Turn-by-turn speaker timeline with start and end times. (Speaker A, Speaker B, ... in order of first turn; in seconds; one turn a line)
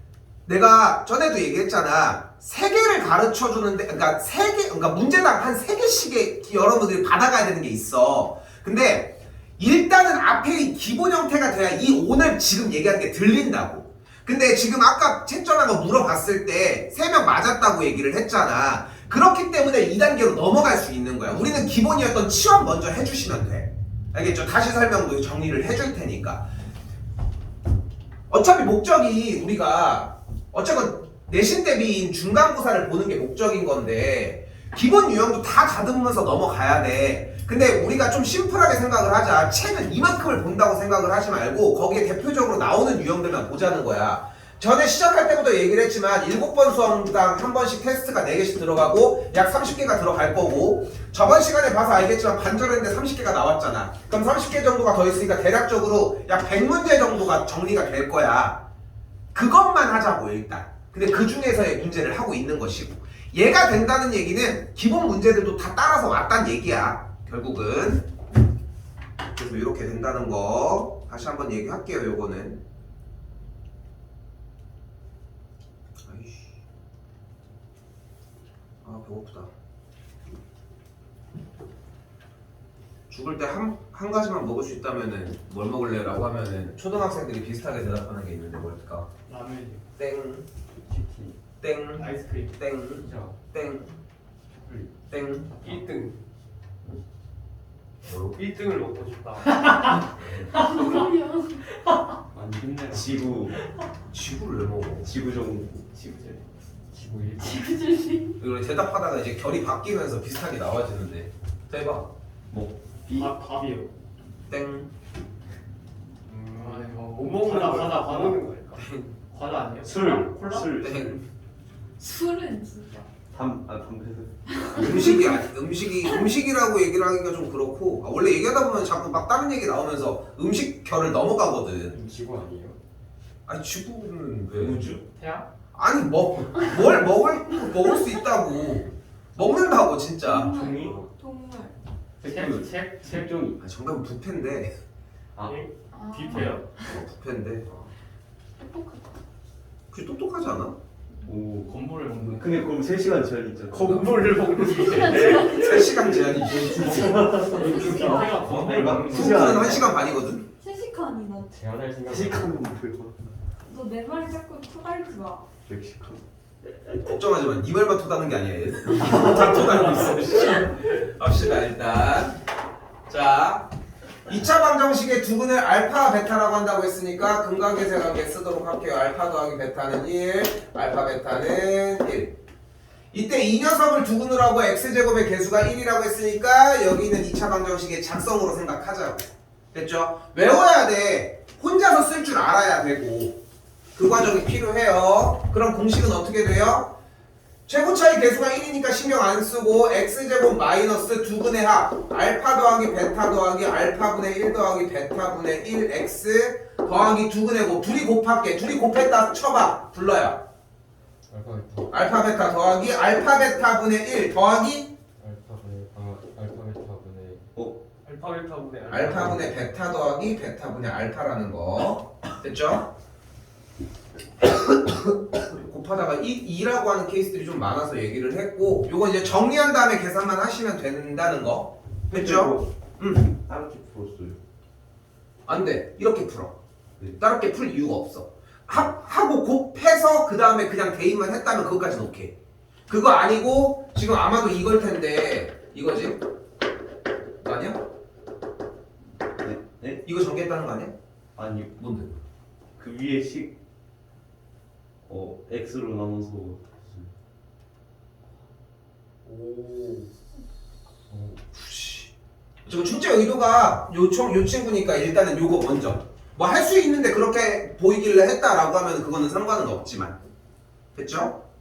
Speaker A: 0.5-26.5
Speaker A: 28.3-58.6
Speaker A: 59.3-68.0
Speaker A: 69.3-72.6
Speaker A: 76.0-76.5
Speaker A: 78.8-79.5
Speaker A: 83.1-89.1
Speaker B: 89.3-89.8
Speaker A: 90.0-90.5
Speaker C: 90.9-91.3
Speaker A: 91.6-93.9
Speaker B: 92.0-92.6
Speaker C: 93.0-93.4
Speaker A: 95.1-95.8
Speaker D: 95.6-96.2
Speaker A: 98.0-98.4
Speaker D: 98.3-99.6
Speaker B: 99.5-101.0
Speaker A: 100.2-101.0
Speaker E: 100.5-101.7
Speaker C: 102.3-103.5
Speaker F: 102.9-103.6
Speaker A: 104.1-105.1
Speaker F: 105.0-105.8
Speaker B: 105.9-106.4
Speaker C: 106.9-107.8
Speaker E: 107.4-108.3
Speaker A: 108.4-112.1
Speaker F: 112.5-113.3
Speaker B: 113.1-113.9
Speaker A: 114.5-114.9
Speaker D: 116.3-118.8
Speaker B: 116.5-118.4
Speaker A: 118.7-119.1
Speaker B: 119.3-120.7
Speaker F: 119.8-121.2
Speaker A: 120.8-121.2
Speaker E: 122.0-123.1
Speaker F: 123.3-124.4
Speaker E: 124.5-125.4
Speaker A: 124.7-132.0
Speaker C: 131.9-132.8
Speaker A: 133.5-134.9
Speaker F: 134.5-135.0
Speaker B: 135.1-135.5
Speaker A: 135.7-140.6
Speaker E: 140.2-141.8
Speaker F: 140.4-141.0
Speaker B: 142.2-143.4
Speaker C: 142.2-143.6
Speaker A: 143.6-144.8
Speaker F: 145.3-145.6
Speaker B: 145.4-146.7
Speaker E: 145.9-146.6
Speaker A: 146.8-147.8
Speaker E: 148.6-149.2
Speaker A: 149.9-150.7
Speaker F: 151.2-154.3
Speaker B: 151.6-152.7
Speaker D: 153.7-155.9
Speaker E: 154.8-158.7
Speaker F: 155.0-155.4
Speaker A: 155.1-160.4
Speaker F: 156.5-159.9
Speaker B: 157.3-159.8
Speaker E: 160.2-161.5
Speaker C: 161.5-162.6
Speaker F: 162.1-163.2
Speaker E: 163.7-165.5
Speaker F: 165.7-166.2
Speaker A: 167.0-172.4
Speaker F: 169.1-170.1
Speaker A: 173.1-173.7
Speaker A: 174.2-182.3
Speaker A: 183.1-193.3
Speaker A: 193.9-196.9
Speaker A: 197.7-210.4
Speaker C: 211.3-212.1
Speaker A: 211.9-214.9
Speaker C: 215.2-217.4
Speaker D: 218.0-219.5
Speaker A: 218.9-222.8
Speaker A: 224.6-233.3
Speaker F: 232.1-232.7
Speaker F: 233.2-234.4
Speaker A: 235.5-236.5
Speaker A: 237.1-242.3
Speaker A: 242.9-246.2
Speaker A: 247.4-247.8
Speaker F: 249.4-250.0
Speaker A: 250.0-250.9
Speaker F: 251.3-251.7
Speaker A: 251.8-252.2
Speaker F: 252.8-253.6
Speaker F: 255.0-257.0
Speaker A: 259.2-260.1
Speaker C: 261.1-261.4
Speaker A: 261.5-262.1
Speaker A: 262.6-270.1
Speaker A: 270.9-271.4